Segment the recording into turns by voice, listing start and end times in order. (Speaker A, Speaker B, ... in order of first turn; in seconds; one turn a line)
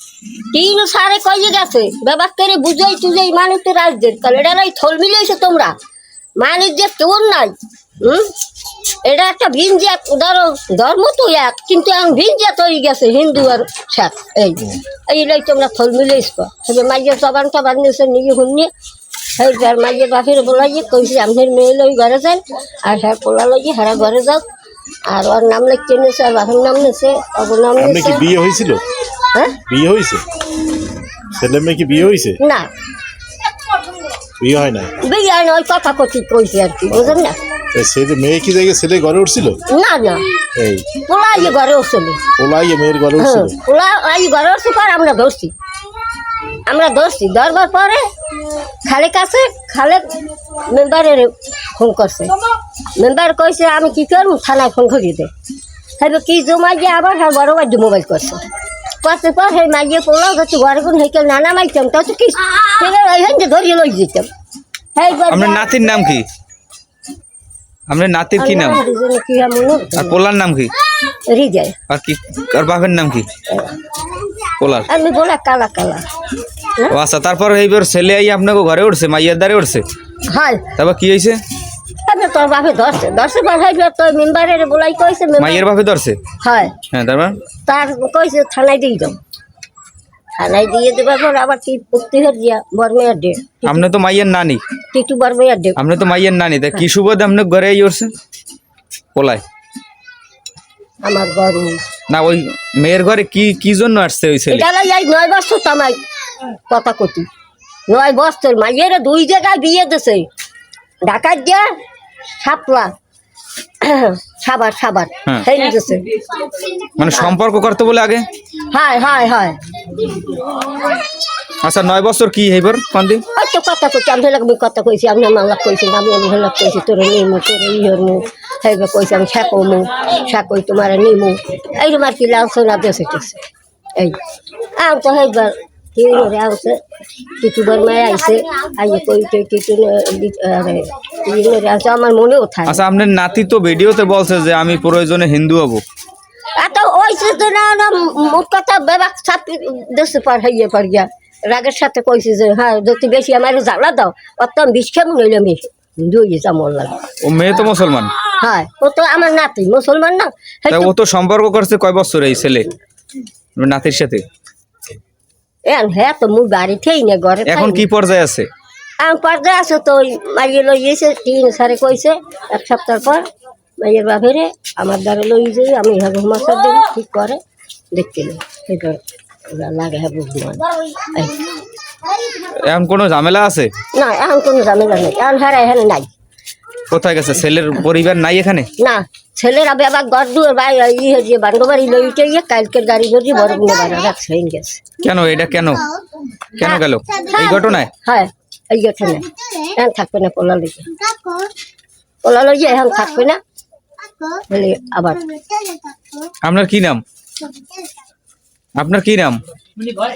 Speaker A: 0.5-5.7
Speaker A: 6.4-8.3
Speaker A: 9.0-18.7
Speaker A: 19.4-24.4
Speaker A: 25.1-28.3
Speaker B: 27.8-28.8
Speaker A: 29.3-29.6
Speaker B: 29.6-30.2
Speaker B: 31.2-32.4
Speaker A: 32.4-32.7
Speaker B: 34.4-35.0
Speaker A: 35.0-37.4
Speaker B: 36.9-37.2
Speaker B: 37.7-39.6
Speaker A: 39.7-40.2
Speaker B: 40.5-40.9
Speaker A: 41.0-42.2
Speaker B: 42.4-43.6
Speaker A: 43.2-45.5
Speaker A: 46.7-48.0
Speaker A: 48.9-50.1
Speaker A: 50.7-52.3
Speaker A: 53.0-55.3
Speaker A: 56.0-58.4
Speaker A: 59.0-64.3
Speaker A: 65.0-65.9
Speaker C: 65.3-66.3
Speaker C: 67.9-68.8
Speaker A: 68.4-70.2
Speaker C: 70.0-70.7
Speaker A: 71.3-71.8
Speaker C: 71.9-73.3
Speaker A: 73.5-73.8
Speaker C: 74.6-74.9
Speaker A: 74.9-76.1
Speaker C: 76.9-79.8
Speaker A: 80.3-80.7
Speaker C: 80.8-81.4
Speaker A: 82.0-85.7
Speaker C: 85.4-86.2
Speaker A: 86.4-86.8
Speaker C: 86.9-87.4
Speaker A: 87.7-89.2
Speaker A: 90.4-93.8
Speaker C: 93.7-94.6
Speaker A: 94.9-95.8
Speaker C: 95.8-98.1
Speaker C: 99.2-99.4
Speaker A: 101.0-101.8
Speaker C: 102.1-104.7
Speaker A: 104.5-106.0
Speaker A: 106.7-107.3
Speaker A: 107.9-110.3
Speaker A: 111.0-111.7
Speaker A: 112.4-112.9
Speaker A: 113.8-116.1
Speaker C: 117.0-118.3
Speaker A: 118.7-119.6
Speaker C: 121.6-123.2
Speaker A: 123.3-133.4
Speaker A: 134.8-136.8
Speaker A: 137.3-142.8
Speaker C: 142.7-145.8
Speaker A: 146.6-157.0
Speaker C: 157.2-158.2
Speaker A: 158.3-160.9
Speaker C: 160.7-162.7
Speaker C: 163.6-164.2
Speaker A: 165.7-167.8
Speaker C: 167.5-168.5
Speaker A: 169.0-173.2
Speaker A: 173.8-177.4
Speaker A: 177.9-181.5
Speaker C: 182.5-183.7
Speaker A: 183.9-186.1
Speaker C: 186.9-188.7
Speaker A: 188.8-194.8
Speaker C: 195.0-195.9
Speaker C: 196.6-197.9
Speaker A: 196.6-201.4
Speaker A: 202.2-203.4
Speaker A: 204.2-205.7
Speaker C: 206.4-207.0
Speaker C: 208.8-209.4